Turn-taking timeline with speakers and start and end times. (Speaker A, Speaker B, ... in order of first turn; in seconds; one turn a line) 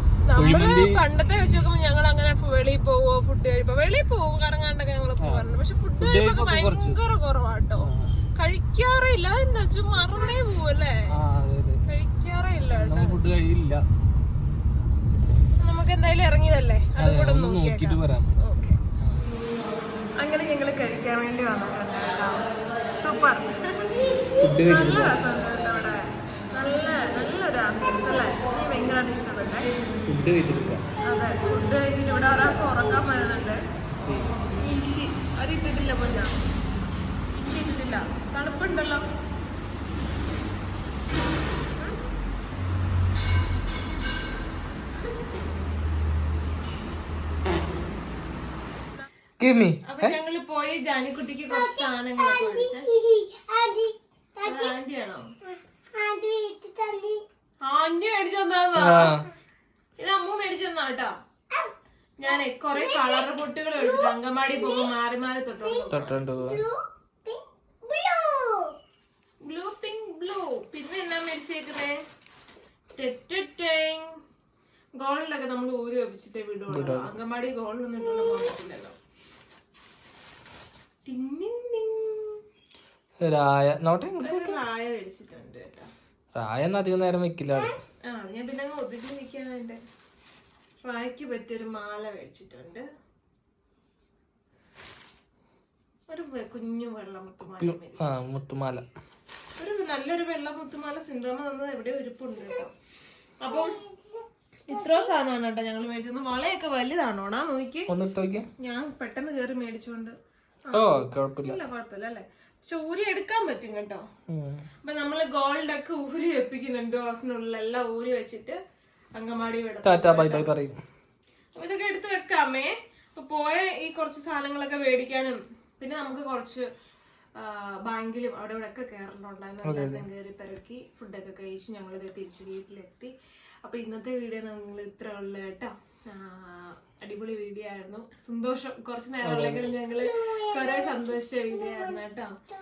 Speaker A: 0.3-7.9
Speaker B: 0.3-1.7
Speaker B: 5.2-7.0
Speaker B: 7.8-8.1
Speaker A: 8.4-10.9
Speaker B: 11.1-11.8
Speaker A: 11.9-13.2
Speaker B: 12.7-13.8
Speaker A: 15.6-18.8
Speaker B: 17.0-18.4
Speaker B: 19.0-19.3
Speaker A: 20.2-29.7
Speaker B: 24.4-25.2
Speaker B: 30.1-30.9
Speaker A: 31.0-33.6
Speaker B: 34.0-34.6
Speaker A: 34.6-36.4
Speaker A: 37.3-39.1
Speaker B: 49.4-50.1
Speaker A: 49.9-52.9
Speaker C: 51.5-54.7
Speaker A: 54.4-55.3
Speaker C: 55.5-57.2
Speaker A: 57.6-59.1
Speaker B: 58.8-59.3
Speaker A: 60.0-61.1
Speaker A: 62.2-66.2
Speaker C: 62.3-63.2
Speaker C: 63.8-64.9
Speaker C: 65.7-68.8
Speaker B: 65.9-66.6
Speaker A: 69.4-72.0
Speaker A: 73.0-74.1
Speaker A: 75.0-79.0
Speaker B: 76.7-77.1
Speaker A: 81.1-82.4
Speaker B: 83.2-84.6
Speaker A: 84.2-85.9
Speaker B: 86.4-87.8
Speaker A: 88.1-89.8
Speaker A: 90.8-92.8
Speaker A: 96.1-98.1
Speaker B: 97.6-98.8
Speaker A: 99.6-102.7
Speaker A: 103.4-103.8
Speaker C: 103.5-105.1
Speaker A: 104.7-107.9
Speaker B: 107.9-108.5
Speaker A: 108.6-110.2
Speaker A: 110.7-114.0
Speaker B: 110.7-111.6
Speaker B: 114.3-114.6
Speaker A: 114.8-118.6
Speaker A: 119.2-120.5
Speaker B: 119.8-120.8
Speaker A: 121.5-126.7
Speaker A: 127.4-133.1
Speaker B: 129.7-130.1
Speaker A: 133.6-142.3
Speaker B: 139.2-139.7
Speaker C: 140.1-141.0